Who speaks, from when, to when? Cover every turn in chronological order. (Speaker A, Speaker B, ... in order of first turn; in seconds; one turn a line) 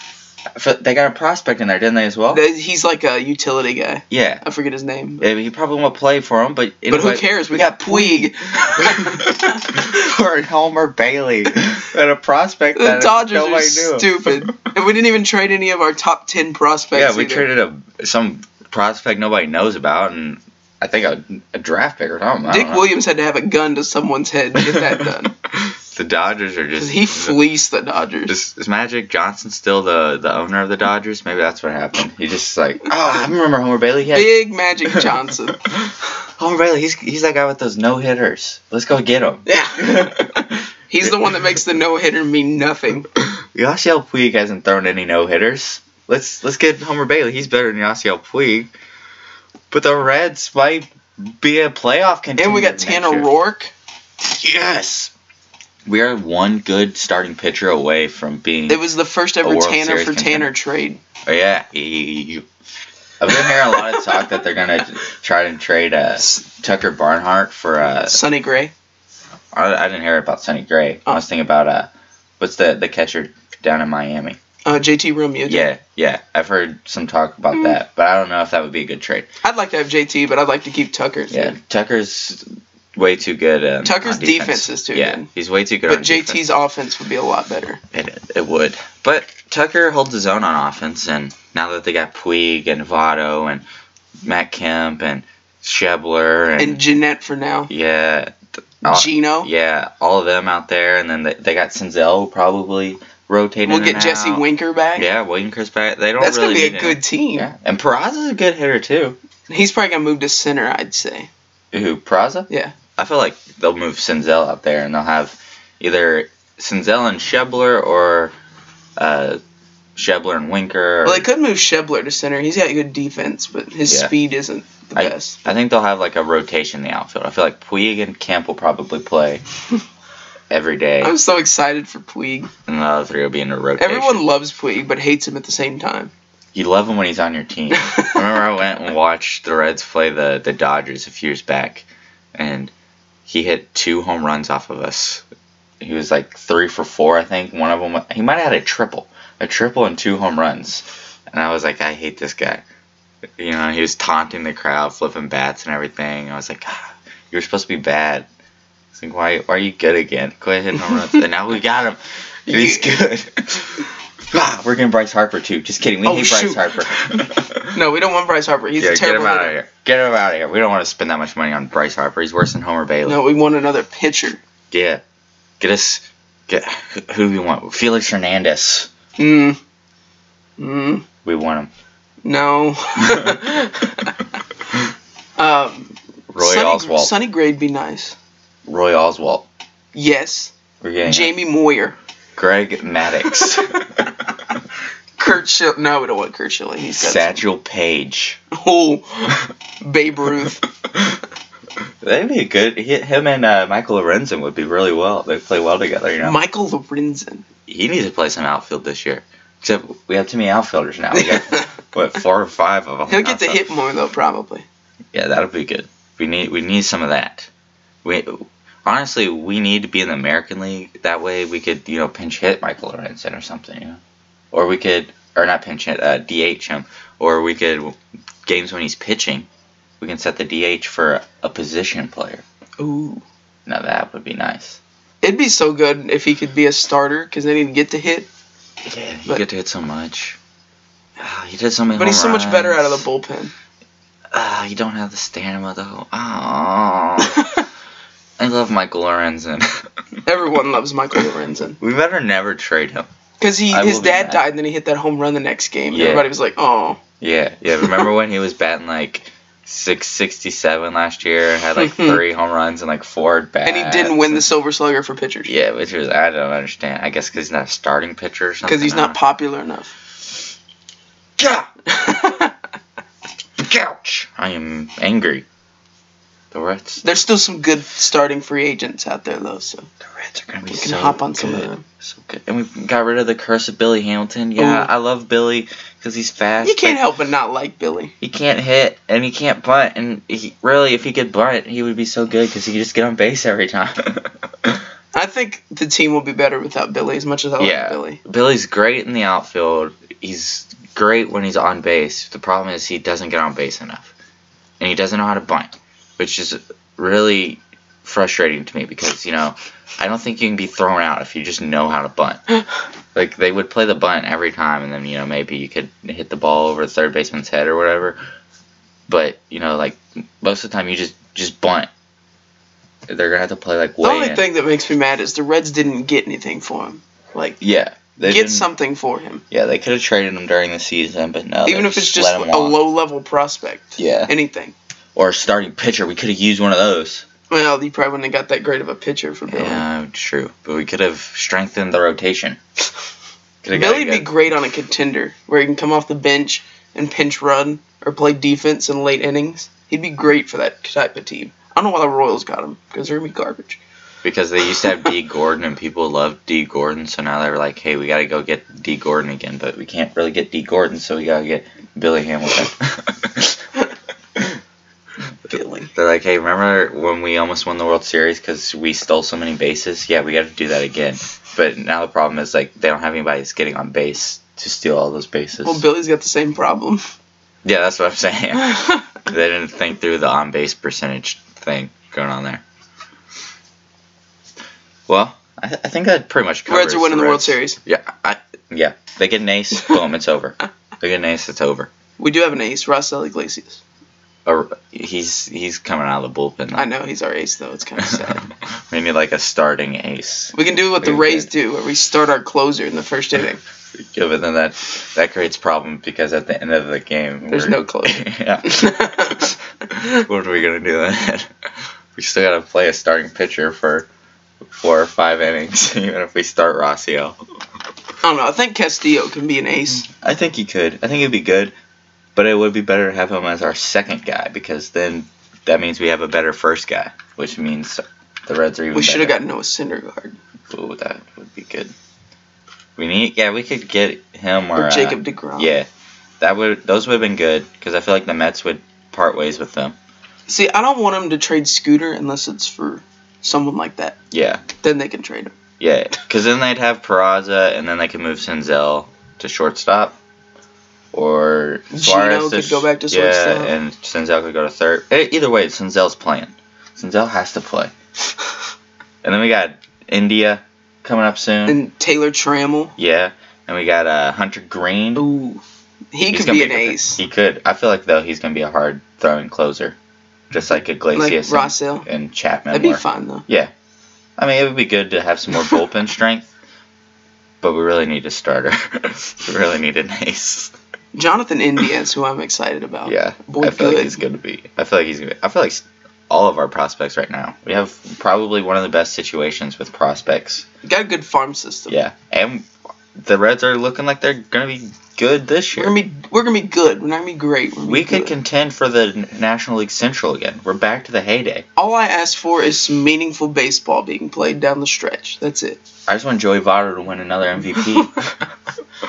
Speaker A: 0.5-2.4
Speaker B: 2.3-5.3
Speaker A: 4.1-4.4
Speaker A: 5.2-14.5
Speaker B: 6.9-9.7
Speaker B: 12.8-17.5
Speaker A: 16.9-22.9
Speaker B: 22.4-25.3
Speaker A: 24.6-25.0
Speaker A: 25.6-27.4
Speaker B: 26.8-28.3
Speaker A: 28.3-34.4
Speaker B: 34.1-35.7
Speaker A: 35.8-41.1
Speaker B: 39.5-43.1
Speaker A: 43.2-48.7
Speaker A: 49.7-53.3
Speaker B: 52.4-53.7
Speaker A: 54.2-55.1
Speaker A: 55.9-58.8
Speaker B: 58.7-61.0
Speaker A: 59.4-60.5
Speaker A: 61.2-62.5
Speaker A: 63.2-68.2
Speaker B: 63.5-63.8
Speaker B: 68.0-68.7
Speaker A: 69.5-74.4
Speaker B: 74.7-75.7
Speaker A: 75.5-79.3
Speaker B: 79.4-81.5
Speaker A: 81.3-86.5
Speaker B: 83.8-85.3
Speaker B: 85.9-87.8
Speaker A: 87.9-93.6
Speaker A: 94.2-96.8
Speaker B: 96.6-97.7
Speaker A: 97.7-104.4
Speaker B: 98.8-99.5
Speaker B: 103.6-105.1
Speaker A: 105.0-109.2
Speaker B: 106.2-107.5
Speaker B: 109.5-111.3
Speaker A: 111.7-118.3
Speaker B: 112.5-112.7
Speaker A: 119.0-119.4
Speaker A: 120.0-121.2
Speaker B: 121.0-125.4
Speaker A: 123.8-124.1
Speaker A: 125.0-129.4
Speaker A: 130.5-131.1
Speaker B: 131.0-132.5
Speaker A: 132.7-134.2
Speaker B: 133.8-136.1
Speaker A: 136.5-142.7
Speaker B: 137.7-138.2
Speaker A: 143.2-145.2
Speaker A: 145.8-152.6
Speaker A: 153.4-158.3
Speaker A: 158.9-167.7
Speaker B: 162.5-162.9
Speaker B: 166.0-167.2
Speaker B: 167.7-169.5
Speaker A: 168.8-173.2
Speaker B: 173.0-174.4
Speaker A: 174.7-175.0
Speaker A: 175.6-178.9
Speaker B: 179.2-179.6
Speaker B: 180.6-181.0
Speaker A: 181.2-181.7
Speaker B: 182.2-184.1
Speaker B: 185.4-188.2
Speaker A: 186.3-187.1
Speaker A: 188.7-189.5
Speaker B: 189.9-190.5
Speaker A: 190.8-191.3
Speaker B: 191.0-191.9
Speaker A: 192.3-194.1
Speaker B: 195.2-197.4
Speaker A: 197.0-198.4
Speaker B: 198.5-200.7
Speaker A: 202.0-206.4
Speaker B: 206.2-207.4
Speaker A: 207.7-213.7
Speaker B: 211.1-211.7
Speaker B: 213.1-214.6
Speaker A: 215.1-217.5
Speaker A: 218.0-224.0
Speaker A: 224.5-229.5
Speaker A: 230.0-232.4
Speaker B: 232.8-233.2
Speaker A: 233.7-234.8
Speaker B: 235.2-238.3
Speaker A: 238.8-240.4
Speaker A: 241.2-243.0
Speaker B: 241.9-243.5
Speaker A: 244.3-247.4
Speaker B: 247.2-247.6
Speaker A: 248.4-249.8
Speaker B: 250.2-251.8
Speaker A: 251.8-253.1
Speaker B: 253.4-257.0
Speaker A: 253.7-254.4
Speaker A: 255.9-256.3
Speaker A: 257.2-264.4
Speaker B: 261.8-262.2
Speaker B: 263.6-265.5
Speaker A: 265.4-269.2
Speaker B: 268.6-269.9
Speaker A: 271.4-271.7
Speaker B: 271.9-272.5
Speaker A: 273.6-275.4
Speaker A: 276.5-277.0
Speaker B: 277.0-279.9
Speaker A: 280.1-287.0
Speaker B: 280.7-281.8
Speaker B: 284.6-284.9
Speaker B: 286.6-288.1
Speaker A: 288.2-294.8
Speaker B: 295.1-298.2
Speaker A: 297.6-304.1
Speaker A: 304.8-312.4
Speaker A: 313.1-318.2
Speaker A: 319.1-321.9
Speaker A: 323.1-324.4
Speaker B: 324.0-327.6
Speaker A: 327.6-328.7
Speaker B: 328.2-329.4
Speaker A: 329.5-332.8
Speaker B: 331.6-334.7
Speaker A: 334.0-334.3
Speaker A: 335.1-337.2
Speaker B: 337.5-339.8
Speaker A: 339.5-342.6
Speaker A: 343.6-344.3
Speaker B: 343.7-353.8
Speaker A: 354.2-363.6
Speaker B: 365.5-365.9
Speaker A: 365.9-375.8
Speaker B: 375.6-377.0
Speaker A: 377.6-382.6
Speaker A: 385.1-391.9
Speaker B: 386.7-387.8
Speaker B: 392.2-393.8
Speaker A: 394.4-396.9
Speaker B: 396.7-398.4
Speaker A: 398.0-401.5
Speaker B: 400.5-403.6
Speaker A: 403.9-411.5
Speaker B: 407.5-409.5
Speaker A: 412.1-414.1
Speaker A: 414.6-417.4
Speaker B: 418.2-420.1
Speaker A: 420.0-421.7
Speaker A: 422.3-429.4
Speaker B: 428.9-430.4
Speaker A: 430.7-431.9
Speaker A: 433.0-435.9
Speaker B: 434.8-435.7
Speaker A: 436.4-439.9
Speaker B: 440.5-444.2
Speaker A: 444.3-444.6
Speaker B: 444.8-445.5
Speaker A: 445.8-450.2
Speaker A: 451.1-457.9
Speaker B: 451.9-453.7
Speaker A: 459.2-461.8
Speaker B: 461.7-462.9
Speaker A: 463.0-465.2
Speaker B: 465.1-467.2
Speaker A: 466.3-470.0
Speaker A: 470.5-473.7
Speaker B: 471.1-472.1
Speaker B: 472.7-473.4
Speaker A: 474.4-476.5
Speaker A: 477.6-480.7
Speaker B: 481.1-484.2
Speaker A: 483.1-490.7
Speaker B: 490.8-491.9
Speaker A: 491.9-495.9
Speaker B: 495.8-498.3
Speaker A: 497.8-501.6
Speaker B: 501.8-505.8
Speaker A: 506.1-508.3